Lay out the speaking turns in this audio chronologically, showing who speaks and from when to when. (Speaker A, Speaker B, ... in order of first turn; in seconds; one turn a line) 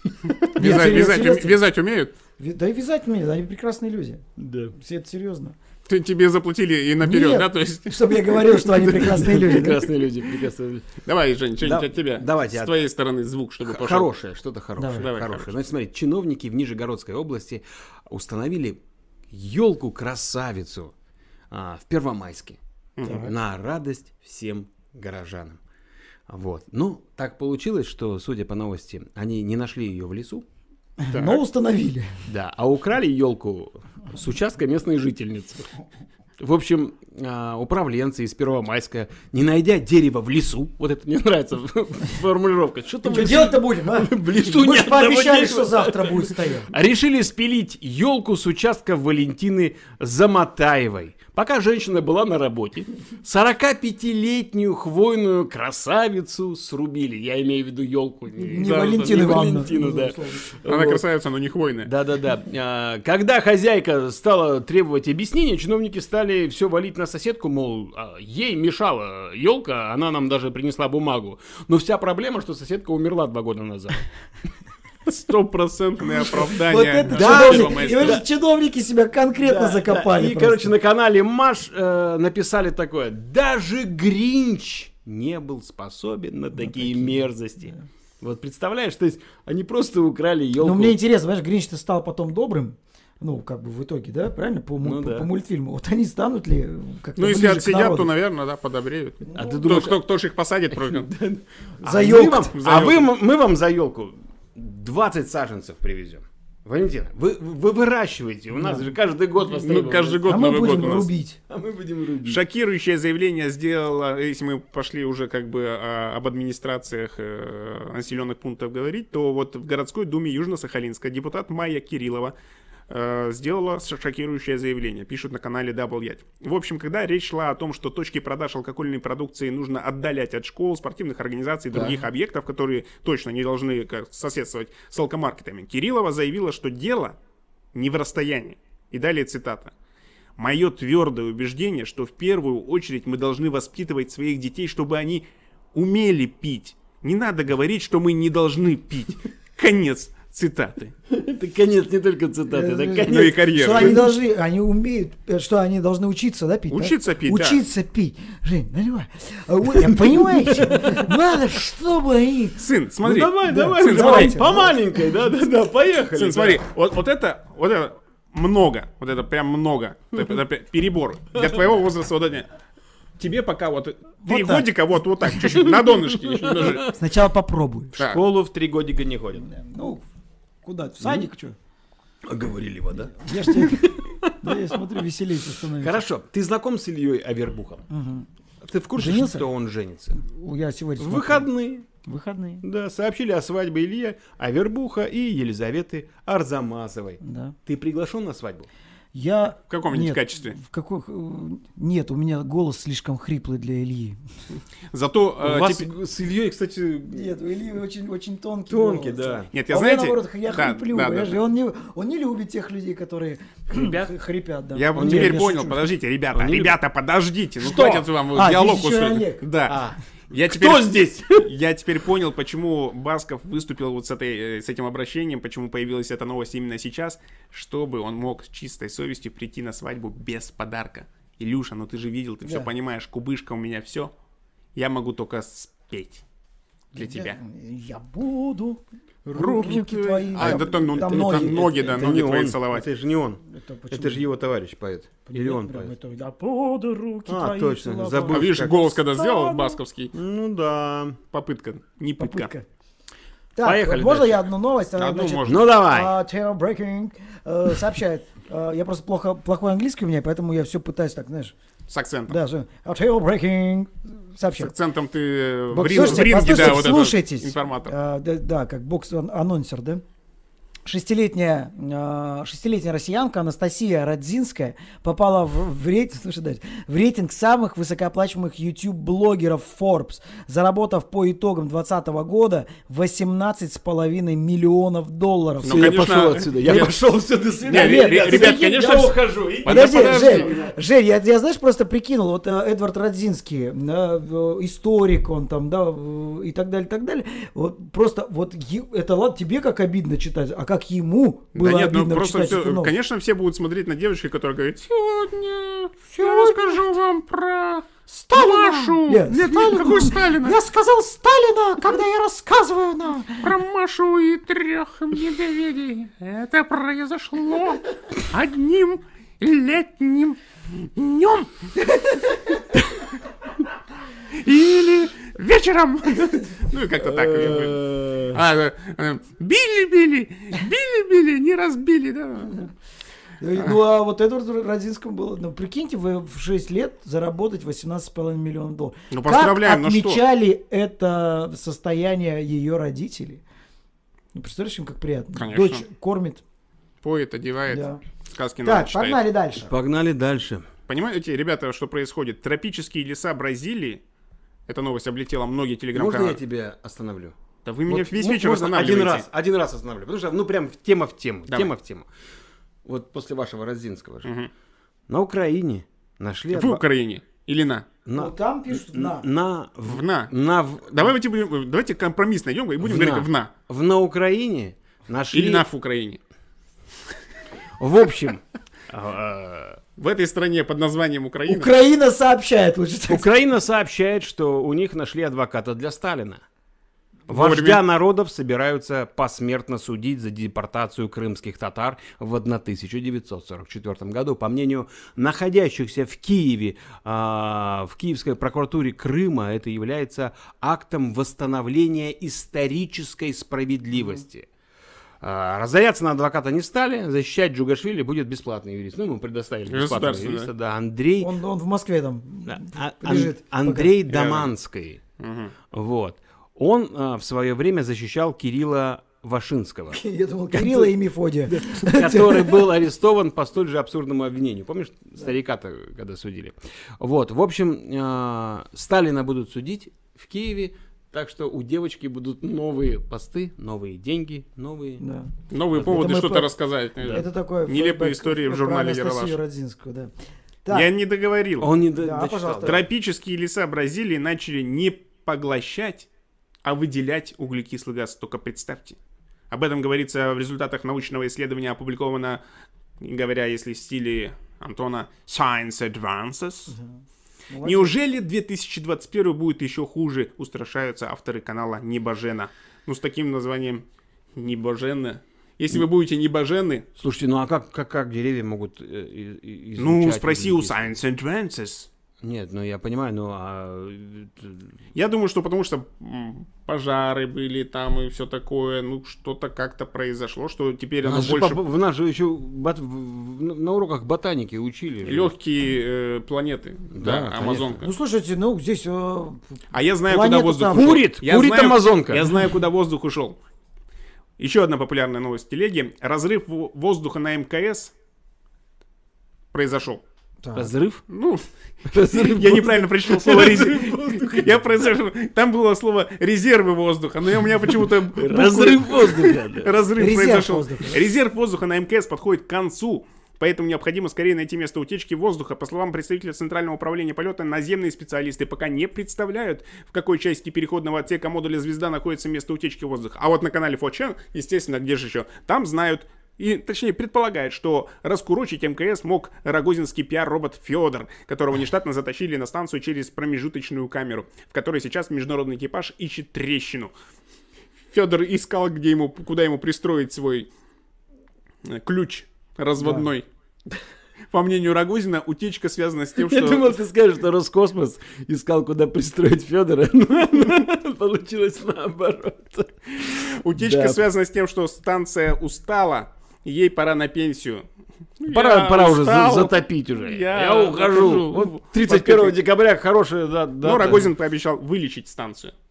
Speaker A: 0.4-2.1
Speaker B: 0.5-1.6
Speaker B: 2.4-4.2
Speaker C: 4.4-4.7
Speaker B: 4.7-5.5
Speaker A: 5.9-8.8
Speaker B: 7.0-9.9
Speaker C: 8.7-10.9
Speaker A: 11.0-14.1
Speaker C: 11.6-12.7
Speaker C: 13.6-18.8
Speaker B: 14.8-15.1
Speaker A: 15.0-15.5
Speaker C: 19.3-20.9
Speaker C: 21.5-25.6
Speaker A: 23.0-23.3
Speaker B: 23.0-23.3
Speaker C: 26.3-30.4
Speaker B: 31.0-32.2
Speaker A: 31.1-31.4
Speaker C: 32.3-35.7
Speaker C: 36.4-61.0
Speaker B: 43.0-46.7
Speaker B: 58.4-60.5
Speaker A: 58.6-59.3
Speaker A: 60.6-61.9
Speaker C: 61.8-74.0
Speaker A: 75.0-78.2
Speaker B: 76.6-80.7
Speaker C: 77.1-78.2
Speaker C: 79.4-91.0
Speaker B: 86.6-87.2
Speaker B: 90.6-98.1
Speaker C: 94.8-95.3
Speaker A: 97.2-101.1
Speaker B: 99.3-99.6
Speaker C: 99.3-100.0
Speaker C: 100.7-110.4
Speaker B: 101.8-102.5
Speaker A: 102.5-103.1
Speaker B: 108.5-108.9
Speaker A: 109.5-111.1
Speaker B: 110.2-111.4
Speaker C: 111.5-112.4
Speaker A: 112.2-122.3
Speaker A: 122.9-137.2
Speaker C: 131.7-132.0
Speaker A: 137.7-139.7
Speaker A: 140.4-150.9
Speaker C: 151.1-153.9
Speaker B: 152.5-162.6
Speaker A: 153.1-154.1
Speaker A: 156.7-157.6
Speaker C: 159.8-161.1
Speaker A: 162.6-164.4
Speaker C: 163.0-166.6
Speaker B: 163.4-164.8
Speaker A: 166.1-172.5
Speaker A: 173.2-176.9
Speaker B: 174.2-174.7
Speaker C: 176.2-176.9
Speaker B: 176.8-177.9
Speaker C: 178.0-179.5
Speaker B: 179.4-180.1
Speaker B: 180.6-181.6
Speaker C: 182.2-184.8
Speaker B: 183.1-186.0
Speaker C: 185.8-187.8
Speaker B: 187.9-188.3
Speaker C: 188.6-190.2
Speaker B: 188.9-189.4
Speaker B: 190.2-191.5
Speaker C: 191.0-191.8
Speaker B: 192.0-192.6
Speaker C: 192.6-198.7
Speaker B: 197.2-197.6
Speaker B: 199.1-204.2
Speaker A: 199.7-200.6
Speaker A: 204.9-205.9
Speaker C: 205.4-207.3
Speaker B: 207.1-215.9
Speaker C: 208.7-209.5
Speaker A: 209.5-211.4
Speaker C: 213.7-214.1
Speaker A: 214.7-219.8
Speaker C: 214.9-215.5
Speaker C: 216.3-216.8
Speaker B: 217.6-219.4
Speaker C: 219.7-221.5
Speaker A: 220.3-234.1
Speaker B: 232.4-232.7
Speaker A: 234.8-236.2
Speaker A: 236.9-237.4
Speaker B: 236.9-242.0
Speaker A: 239.3-242.9
Speaker C: 240.3-245.9
Speaker B: 243.4-244.2
Speaker B: 245.3-249.8
Speaker C: 247.3-248.8
Speaker A: 248.3-250.1
Speaker C: 250.1-251.2
Speaker A: 251.3-252.5
Speaker B: 252.2-252.7
Speaker B: 253.5-261.5
Speaker C: 253.6-254.4
Speaker A: 255.0-255.7
Speaker C: 255.5-256.1
Speaker A: 261.9-262.4
Speaker B: 262.3-264.7
Speaker A: 264.6-267.9
Speaker B: 265.7-270.0
Speaker B: 270.9-286.0
Speaker A: 285.6-287.0
Speaker C: 285.6-290.7
Speaker A: 287.6-290.6
Speaker B: 287.7-302.9
Speaker A: 301.5-310.6
Speaker B: 306.1-306.9
Speaker B: 308.1-313.5
Speaker A: 313.4-321.5
Speaker A: 324.3-332.7
Speaker C: 327.0-328.4
Speaker B: 333.4-343.4
Speaker A: 339.1-340.2
Speaker B: 344.3-346.4
Speaker A: 345.4-345.8
Speaker A: 347.0-349.2
Speaker B: 347.7-348.0
Speaker B: 348.6-349.7
Speaker C: 349.6-350.6
Speaker A: 350.9-354.0
Speaker A: 354.7-356.4
Speaker C: 355.9-357.3
Speaker A: 357.6-359.2
Speaker C: 357.9-362.1
Speaker C: 362.9-364.3
Speaker A: 364.2-364.5
Speaker C: 365.1-366.8
Speaker A: 366.5-367.9
Speaker C: 368.1-371.1
Speaker B: 368.1-369.3
Speaker A: 369.9-370.3
Speaker A: 370.9-373.5
Speaker C: 372.8-375.6
Speaker A: 375.3-376.2
Speaker C: 377.8-379.8
Speaker A: 380.0-381.7
Speaker B: 381.5-383.3
Speaker C: 383.1-386.4
Speaker A: 387.3-387.8
Speaker C: 387.3-404.5
Speaker C: 405.2-411.3
Speaker A: 409.7-410.5
Speaker B: 411.2-414.0
Speaker C: 412.5-415.0
Speaker A: 414.1-414.5
Speaker A: 415.2-415.5
Speaker C: 415.7-420.0
Speaker B: 419.9-422.7
Speaker C: 420.5-420.9
Speaker C: 421.5-435.1
Speaker B: 435.0-436.5
Speaker A: 435.5-439.4
Speaker B: 437.1-440.1
Speaker B: 440.6-440.9
Speaker A: 440.7-441.7
Speaker C: 441.6-442.8
Speaker B: 442.0-442.8
Speaker A: 442.6-446.1
Speaker A: 446.6-449.0
Speaker A: 449.5-452.4
Speaker A: 453.0-456.8
Speaker B: 456.7-457.0
Speaker B: 457.5-457.9
Speaker A: 457.6-463.8
Speaker A: 464.4-466.8
Speaker C: 467.0-470.9
Speaker A: 469.8-471.9
Speaker C: 472.2-474.7
Speaker A: 474.9-481.6
Speaker C: 481.0-485.3
Speaker A: 485.0-487.9
Speaker C: 486.9-487.8
Speaker B: 487.8-491.0
Speaker A: 489.7-493.4
Speaker C: 490.7-492.3
Speaker A: 494.4-497.9
Speaker A: 499.5-500.0
Speaker B: 500.4-500.7
Speaker C: 500.5-501.0
Speaker A: 501.1-501.4
Speaker C: 501.9-504.6
Speaker A: 502.1-536.9
Speaker C: 508.1-509.7
Speaker B: 509.9-511.0
Speaker A: 537.9-540.5
Speaker A: 541.6-543.2
Speaker B: 542.8-543.1
Speaker A: 544.3-546.7
Speaker C: 546.2-554.0
Speaker A: 553.0-557.6
Speaker A: 558.2-562.4
Speaker C: 558.3-564.1
Speaker A: 563.6-565.5